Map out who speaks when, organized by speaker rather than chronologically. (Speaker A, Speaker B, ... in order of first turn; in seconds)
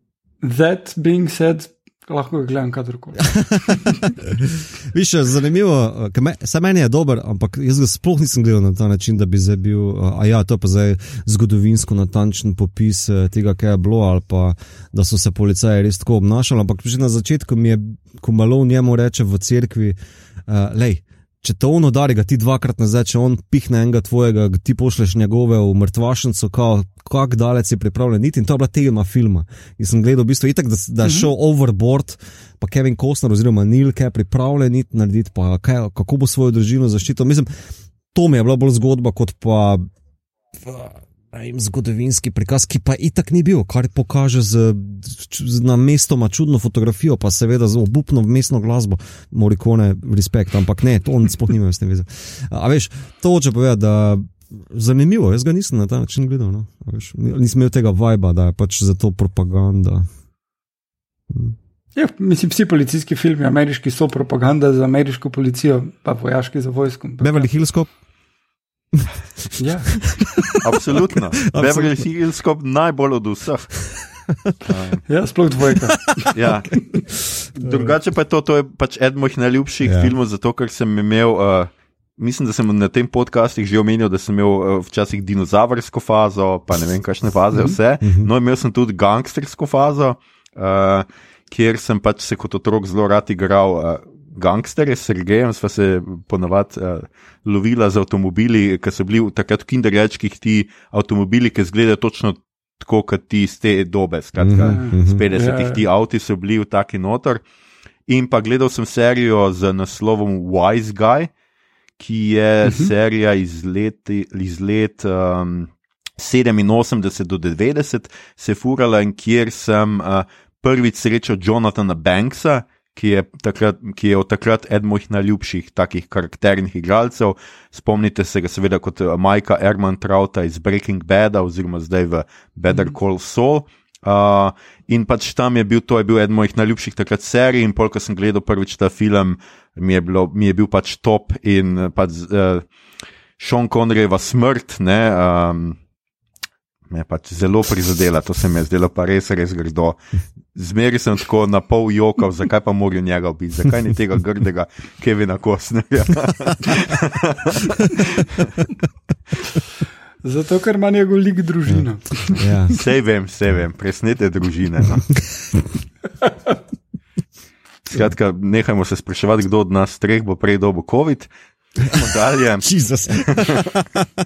Speaker A: 0.4-4.2, 31.0-31.3, 62.0-67.5, 69.6-69.9, 75.1-77.0, 104.6-105.8, 160.2-162.5
Speaker B: 3.3-19.9, 20.5-37.5, 38.1-39.8, 40.5-60.1, 61.3-61.5, 67.2-67.9, 68.9-72.0, 73.9-74.5, 75.8-76.5, 77.3-77.9, 79.8-80.1, 88.0-88.3, 104.4-105.2, 161.7-162.8, 172.6-174.1
Speaker C: 70.6-73.8, 74.7-75.0, 76.3-76.8, 77.5-107.4, 108.1-111.3, 112.0-142.6, 143.4-145.8, 146.9-150.0, 150.5-158.6, 162.7-165.1, 167.8-173.7